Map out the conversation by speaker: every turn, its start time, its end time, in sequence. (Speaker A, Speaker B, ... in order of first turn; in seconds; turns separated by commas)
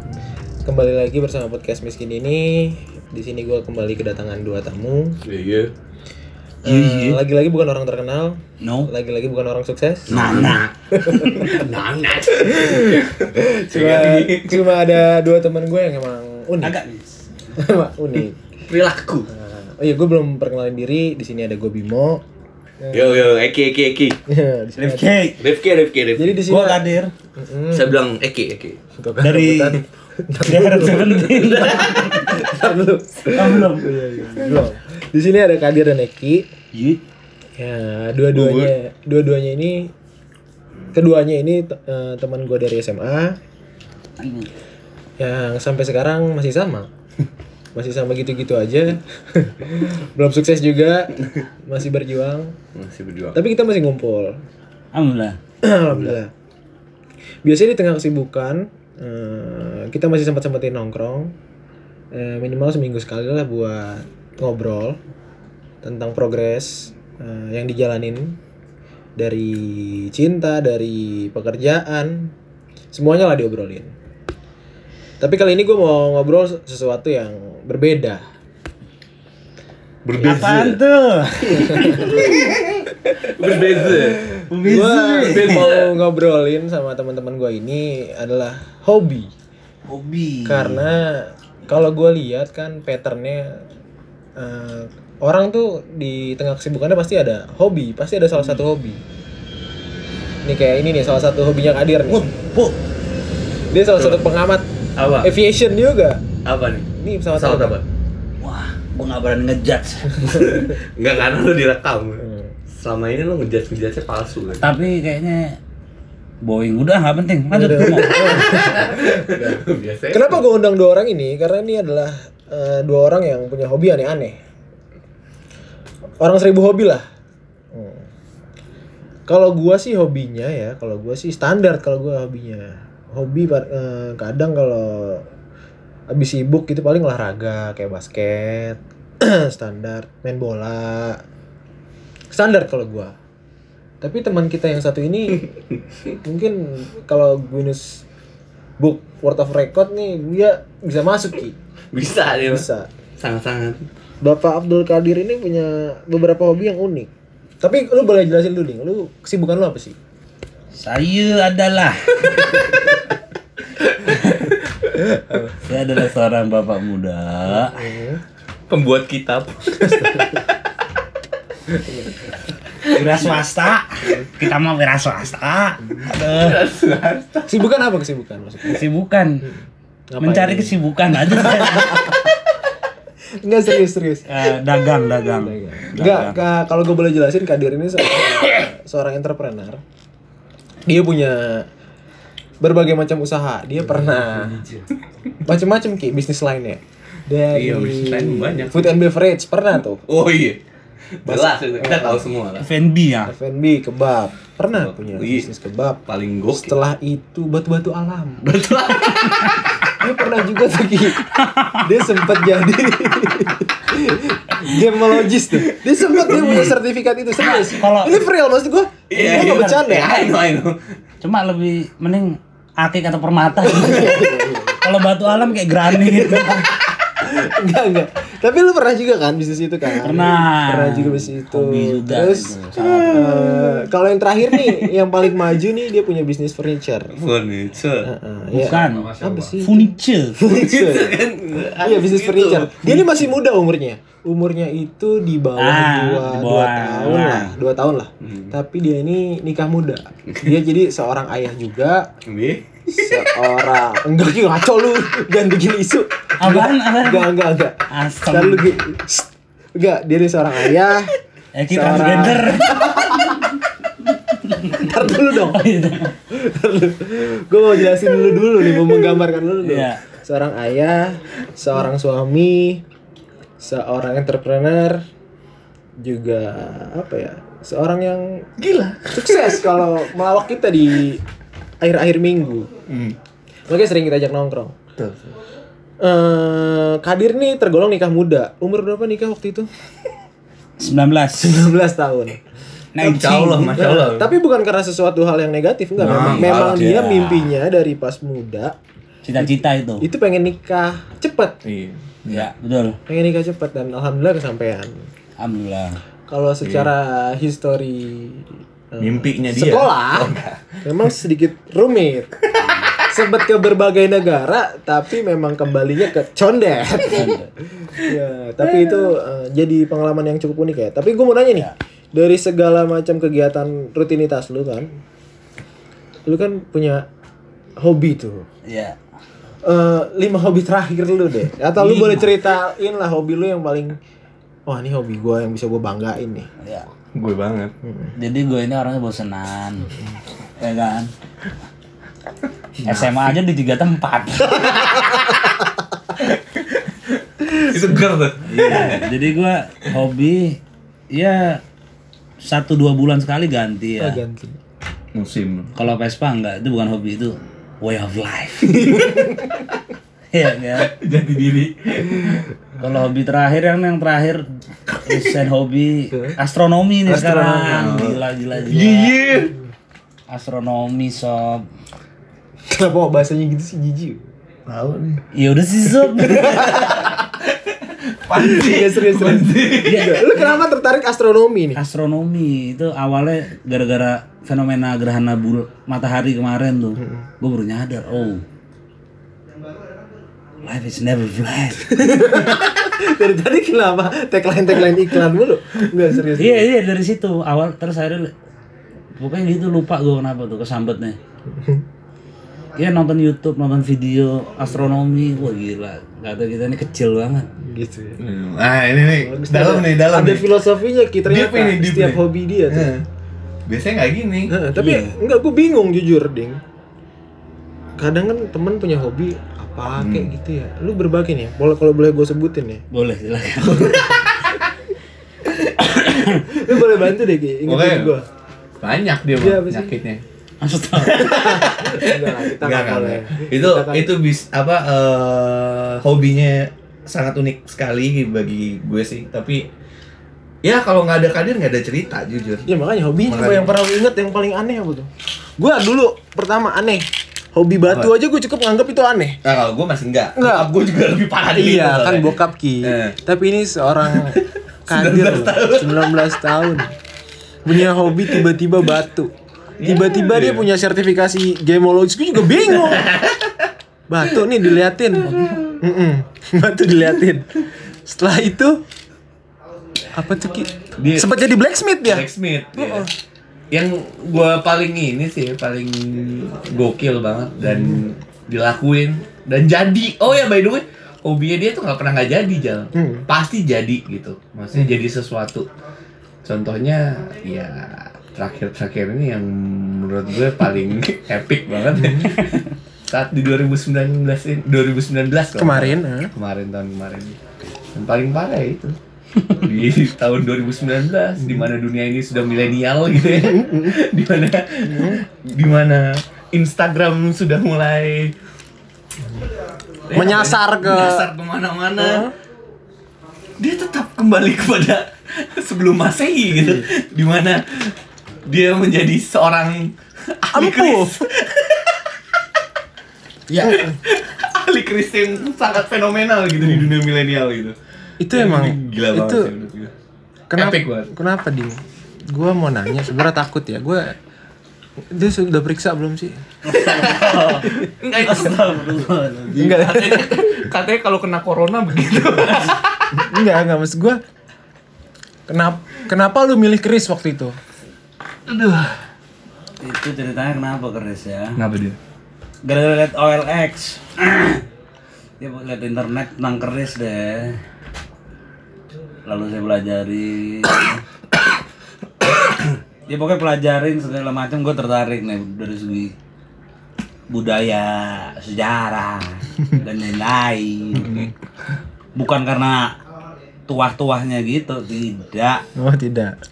Speaker A: 0.7-5.2, Speaker B: 5.2-5.7, Speaker A: 6.6-11.6, Speaker C: 6.7-7.2, Speaker C: 8.6-8.9, Speaker C: 10.1-10.7, Speaker B: 10.1-14.7, Speaker A: 12.4-16.8, Speaker C: 16.6-17.2, Speaker A: 17.6-18.4, Speaker B: 18.7-19.3, Speaker A: 19.3-22.2, Speaker A: 22.8-23.3, Speaker B: 22.9-24.2, Speaker A: 24.3-25.2, Speaker C: 24.8-25.4, Speaker B: 25.4-26.4, Speaker A: 26.2-28.0, Speaker C: 26.5-27.1, Speaker B: 27.7-28.8, Speaker A: 29.0-36.5, Speaker C: 29.2-29.8, Speaker C: 30.4-32.4, Speaker B: 30.9-33.7, Speaker C: 33.3-33.9, Speaker C: 36.7-37.0, Speaker A: 37.6-39.9, Speaker B: 38.3-38.7, Speaker A: 40.9-43.4, Speaker C: 44.2-44.5, Speaker A: 45.2-46.9, Speaker A: 47.7-52.6, Speaker B: 52.8-53.4, Speaker A: 53.3-54.4, Speaker C: 54.9-55.4, Speaker A: 55.6-56.3, Speaker A: 57.4-61.4, Speaker A: 62.1-65.0, Speaker A: 65.8-68.4, Speaker A: 69.2-72.3, Speaker A: 72.9-73.9, Speaker A: 75.2-78.2, Speaker B: 80.0-80.8, Speaker C: 80.2-82.5, Speaker A: 81.6-82.0, Speaker B: 81.7-84.3, Speaker A: 83.6-89.3, Speaker C: 84.3-85.7, Speaker B: 85.2-86.0, Speaker C: 89.9-90.8, Speaker A: 90.5-93.6, Speaker A: 94.4-99.0, Speaker A: 100.5-102.3, Speaker C: 102.4-102.8, Speaker A: 103.7-104.7, Speaker B: 104.0-104.2, Speaker B: 105.0-105.3, Speaker A: 105.2-106.2, Speaker B: 106.5-107.8, Speaker A: 106.9-107.8, Speaker C: 108.4-110.4, Speaker B: 110.2-114.7, Speaker A: 110.4-110.8, Speaker A: 112.2-112.5, Speaker C: 114.6-115.6, Speaker C: 116.4-118.7, Speaker A: 117.5-124.4, Speaker B: 117.9-120.4, Speaker A: 126.2-127.0, Speaker A: 127.7-128.1, Speaker A: 129.3-135.3, Speaker A: 136.1-141.2, Speaker A: 142.3-143.2, Speaker A: 144.0-145.5, Speaker A: 146.2-148.1, Speaker A: 148.8-151.6, Speaker B: 151.9-152.7, Speaker A: 152.3-152.9, Speaker B: 153.2-153.9, Speaker A: 154.2-157.1, Speaker A: 157.6-160.0, Speaker C: 160.8-162.7, Speaker B: 163.8-165.4, Speaker C: 165.6-167.8, Speaker A: 167.5-168.2, Speaker B: 168.7-170.5, Speaker A: 169.8-170.3, Speaker B: 172.8-173.3, Speaker C: 172.9-176.6, Speaker B: 176.1-177.6, Speaker A: 177.5-178.8, Speaker C: 178.6-179.5, Speaker A: 180.1-180.8, Speaker C: 180.2-182.1, Speaker A: 181.3-182.3, Speaker A: 183.4-184.5, Speaker C: 184.3-186.4, Speaker A: 185.3-189.8, Speaker A: 190.9-191.7, Speaker A: 192.6-194.6, Speaker B: 194.4-194.8, Speaker A: 195.4-200.0, Speaker B: 197.5-199.0, Speaker B: 200.1-200.6, Speaker B: 201.2-202.7, Speaker A: 201.3-202.3, Speaker C: 202.6-203.3, Speaker A: 203.3-208.6, Speaker B: 204.8-205.5, Speaker B: 206.1-206.7, Speaker B: 208.4-209.9, Speaker A: 210.0-211.2, Speaker C: 211.3-211.9, Speaker A: 211.8-220.3, Speaker B: 215.5-216.7, Speaker B: 217.4-217.9, Speaker C: 217.4-218.2, Speaker B: 219.1-220.8, Speaker C: 219.2-220.0, Speaker C: 221.2-224.3, Speaker A: 223.6-224.8, Speaker C: 224.8-226.7, Speaker B: 226.0-226.6, Speaker A: 227.2-237.1, Speaker C: 230.0-233.4, Speaker B: 232.8-233.2, Speaker C: 234.5-234.8, Speaker B: 237.1-239.6, Speaker A: 238.0-252.1, Speaker C: 238.5-240.5, Speaker B: 240.4-243.2, Speaker C: 245.6-247.6, Speaker B: 248.2-248.5, Speaker B: 252.3-252.7, Speaker A: 252.9-261.1, Speaker C: 256.4-257.4, Speaker C: 257.9-258.7, Speaker C: 261.6-263.4, Speaker A: 261.7-263.4, Speaker C: 264.4-266.1, Speaker A: 264.7-265.7, Speaker A: 266.3-272.8, Speaker C: 269.6-270.0, Speaker A: 273.6-275.0, Speaker A: 276.0-278.5, Speaker B: 278.6-279.8, Speaker A: 279.1-281.2, Speaker A: 281.8-282.7, Speaker B: 282.9-283.2, Speaker A: 283.7-284.8, Speaker B: 285.0-285.3, Speaker A: 286.0-289.7, Speaker C: 290.8-291.7, Speaker A: 291.4-292.4, Speaker C: 292.9-293.8, Speaker B: 293.0-294.3, Speaker A: 293.7-298.8, Speaker B: 296.0-297.1, Speaker C: 296.0-297.5, Speaker C: 299.2-300.1, Speaker A: 299.4-301.6, Speaker B: 301.6-302.5, Speaker C: 302.3-303.0, Speaker A: 303.1-305.1, Speaker C: 305.4-306.0, Speaker A: 306.3-312.3, Speaker B: 306.6-306.9, Speaker B: 309.0-310.8, Speaker B: 312.4-313.1, Speaker C: 312.6-312.9, Speaker A: 313.1-324.9, Speaker C: 317.0-317.5, Speaker A: 326.3-327.1, Speaker A: 327.8-328.5, Speaker C: 328.7-329.0, Speaker A: 329.6-334.0, Speaker C: 331.8-332.3, Speaker A: 334.7-336.5, Speaker B: 337.1-337.7, Speaker A: 337.8-338.1, Speaker C: 338.2-339.9, Speaker C: 340.6-341.1, Speaker B: 342.8-343.4, Speaker C: 342.8-345.0, Speaker B: 344.7-345.6, Speaker B: 346.2-349.1, Speaker C: 348.4-350.6, Speaker C: 351.1-351.6, Speaker C: 352.4-354.2, Speaker A: 354.0-354.6, Speaker B: 355.1-355.7, Speaker C: 355.8-359.1, Speaker B: 358.6-359.6, Speaker C: 360.3-360.9, Speaker B: 360.8-362.5, Speaker C: 362.8-369.2, Speaker A: 366.1-366.4, Speaker A: 367.1-367.9, Speaker B: 367.7-369.5, Speaker C: 370.3-371.7, Speaker A: 372.7-374.2, Speaker B: 374.7-375.2, Speaker C: 375.3-377.0, Speaker B: 376.0-380.5, Speaker A: 376.6-377.1, Speaker A: 378.3-381.8, Speaker C: 379.9-380.4, Speaker C: 381.8-388.4, Speaker C: 390.6-392.3, Speaker A: 391.9-396.7, Speaker C: 396.4-398.3, Speaker C: 399.2-401.2, Speaker A: 401.6-401.8, Speaker C: 402.8-407.5, Speaker A: 407.6-408.2, Speaker B: 408.2-410.5, Speaker A: 409.2-412.9, Speaker B: 411.3-413.1, Speaker B: 413.7-414.6, Speaker A: 414.5-416.6, Speaker C: 414.8-415.1, Speaker A: 418.0-422.9, Speaker B: 420.0-420.3, Speaker C: 422.9-424.3, Speaker B: 423.6-424.6, Speaker B: 425.5-426.1, Speaker C: 425.9-426.4, Speaker A: 426.2-428.2, Speaker B: 427.7-428.1, Speaker B: 428.8-430.2, Speaker A: 429.4-429.9, Speaker C: 430.6-431.5, Speaker B: 431.0-439.6, Speaker A: 431.1-434.1, Speaker B: 440.6-442.7, Speaker A: 442.7-449.4, Speaker B: 443.3-443.8, Speaker B: 449.4-453.2, Speaker A: 450.4-450.7, Speaker A: 451.5-456.9, Speaker B: 454.1-456.1, Speaker A: 457.6-463.1, Speaker B: 458.2-458.5, Speaker B: 459.8-460.7, Speaker B: 462.6-463.7, Speaker A: 464.1-467.5, Speaker B: 465.2-465.8, Speaker A: 468.1-468.8, Speaker A: 470.1-473.1, Speaker B: 471.0-471.3, Speaker B: 472.1-473.1, Speaker B: 473.7-485.7, Speaker A: 477.6-478.0, Speaker A: 482.9-483.2, Speaker B: 486.4-497.4, Speaker A: 491.9-492.4, Speaker A: 495.6-496.3, Speaker B: 497.9-508.3, Speaker A: 503.4-503.9, Speaker A: 504.9-505.2, Speaker B: 510.1-512.3, Speaker A: 510.1-511.3, Speaker A: 512.0-512.3, Speaker B: 513.6-517.9, Speaker B: 518.5-522.1, Speaker A: 520.5-521.2, Speaker A: 523.5-524.0, Speaker B: 523.6-527.8, Speaker A: 528.2-529.5, Speaker B: 528.3-529.9, Speaker A: 530.5-534.2, Speaker B: 530.5-531.1, Speaker A: 535.1-536.4, Speaker C: 536.6-539.9, Speaker B: 536.7-538.7, Speaker A: 539.5-540.7, Speaker B: 539.6-543.1, Speaker A: 543.1-544.2, Speaker A: 545.5-547.6, Speaker B: 548.5-549.0, Speaker C: 549.8-551.6, Speaker B: 551.6-552.0, Speaker C: 552.6-554.6, Speaker C: 555.4-557.6, Speaker C: 559.3-561.0, Speaker C: 563.1-566.1, Speaker C: 567.3-571.3, Speaker C: 572.2-573.0, Speaker C: 573.7-575.6, Speaker A: 575.8-576.4